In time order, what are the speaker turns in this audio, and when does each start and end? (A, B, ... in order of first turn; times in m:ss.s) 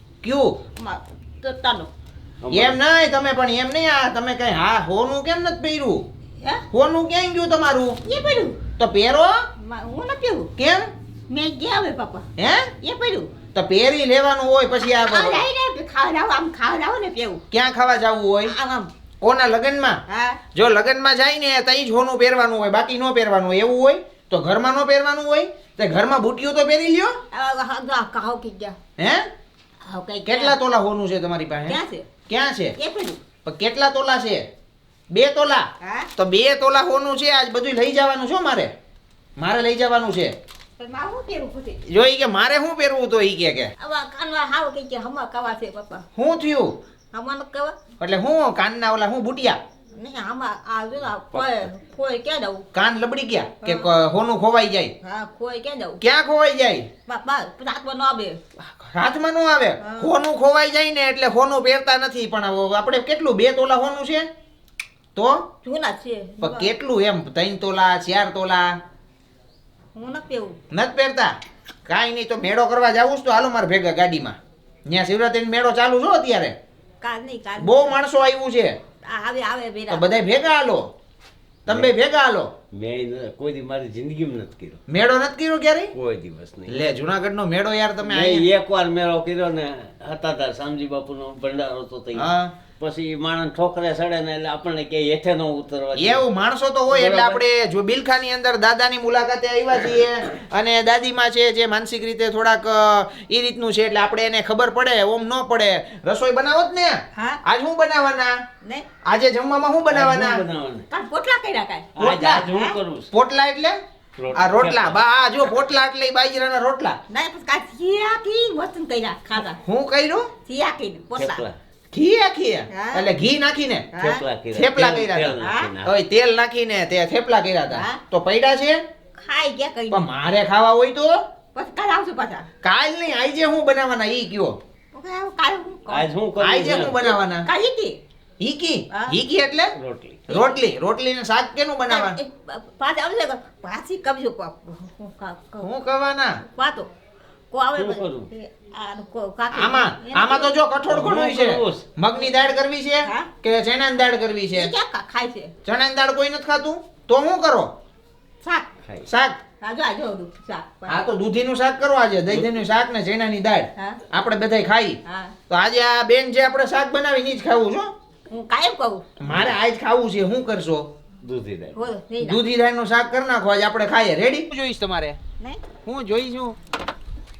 0:00.2-0:00.6 A
0:00.8-0:01.9 B
0:02.4-0:02.8 C
0:02.5-0:06.0 A
0:06.7-0:08.0 A
0:08.0-0:08.6 B
0:08.8-0:09.3 A
0:09.6-0:10.5 B
0:10.6-0:10.8 A
0:11.3-0:12.3 B
0:12.4-0:12.7 A
0:12.8-0:13.3 B
0:13.6-0:15.4 A
0:14.9-0:17.4 B
0:17.5-0:18.5 A
0:18.4-0:18.9 B
0:19.2-0:20.0 A
0:20.1-0:20.4 B
0:20.5-0:27.2 A
0:27.3-0:28.8 B
0:29.0-0:29.3 A
0:29.9-0:30.6 B
0:30.2-0:32.8 A
0:31.6-0:32.1 B
0:32.8-0:33.2 B
0:33.4-0:34.4 A
0:35.1-0:38.7 A
0:35.8-0:36.1 B
0:39.4-0:40.3 A
0:40.8-0:41.8 B
0:41.9-0:43.7 A
0:43.8-0:46.0 B
0:46.1-0:46.8 A
0:47.1-0:47.8 B
0:48.0-0:49.6 A
0:50.0-0:52.7 B
0:52.7-0:54.9 A
0:53.6-0:53.9 B
0:55.0-0:56.0 B
0:56.0-0:56.9 A
0:57.1-0:58.4 B
0:58.8-1:04.3 A
0:59.8-1:00.1 B
1:05.1-1:05.4 A
1:05.6-1:06.7 B
1:06.4-1:08.8 A
1:09.9-1:10.6 B
1:10.7-1:11.4 A
1:11.9-1:16.6 A
1:17.0-1:18.0 B
1:17.6-1:18.8 A
1:19.0-1:20.1 B
1:19.9-1:20.9 A
1:21.7-1:22.5 A
1:21.7-1:21.9 C
1:22.7-1:24.8 C
1:24.9-1:25.9 A
1:26.0-1:26.8 C
1:26.7-1:28.4 A
1:28.0-1:32.3 C
1:32.1-1:32.5 A
1:32.8-1:36.2 C
1:36.0-1:48.4 A
1:36.9-1:37.4 C
1:47.1-1:47.4 B
1:49.0-1:50.4 A
1:49.9-1:50.9 C
1:50.9-1:51.9 B
1:52.0-1:53.1 C
1:52.0-1:52.4 A
1:52.5-1:52.8 B
1:53.1-1:53.8 A
1:54.2-1:55.0 C
1:54.4-1:57.0 A
1:57.1-1:59.6 B
1:59.6-2:00.3 A
2:00.4-2:01.4 B
2:01.1-2:01.6 C
2:01.9-2:03.9 A
2:02.7-2:03.1 B
2:03.9-2:04.2 B
2:04.0-2:05.9 C
2:04.5-2:08.8 A
2:05.4-2:05.7 B
2:07.7-2:08.0 B
2:09.2-2:10.1 B
2:09.9-2:11.2 A
2:11.6-2:12.4 B
2:12.6-2:14.6 A
2:14.9-2:16.1 B
2:15.9-2:17.0 C
2:16.4-2:17.5 A
2:17.0-2:18.0 B
2:18.4-2:19.8 A
2:18.9-2:19.2 B
2:19.8-2:20.3 C
2:20.3-2:22.2 A
2:20.3-2:20.6 B
2:21.9-2:25.7 B
2:25.6-2:26.4 A
2:26.5-2:26.9 B
2:27.5-2:30.6 B
2:27.8-2:28.3 C
2:29.5-2:34.7 A
2:30.9-2:31.8 C
2:33.0-2:33.3 B
2:34.5-2:35.5 B
2:35.6-2:37.7 A
2:38.4-2:38.7 B
2:39.1-2:39.4 A
2:39.6-2:41.1 B
2:40.9-2:47.9 A
2:45.1-2:45.4 B
2:48.3-2:49.1 B
2:49.2-2:50.9 A
2:49.3-2:49.6 C
2:51.2-2:51.8 C
2:51.7-2:52.4 B
2:52.2-2:55.2 A
2:55.8-2:56.6 A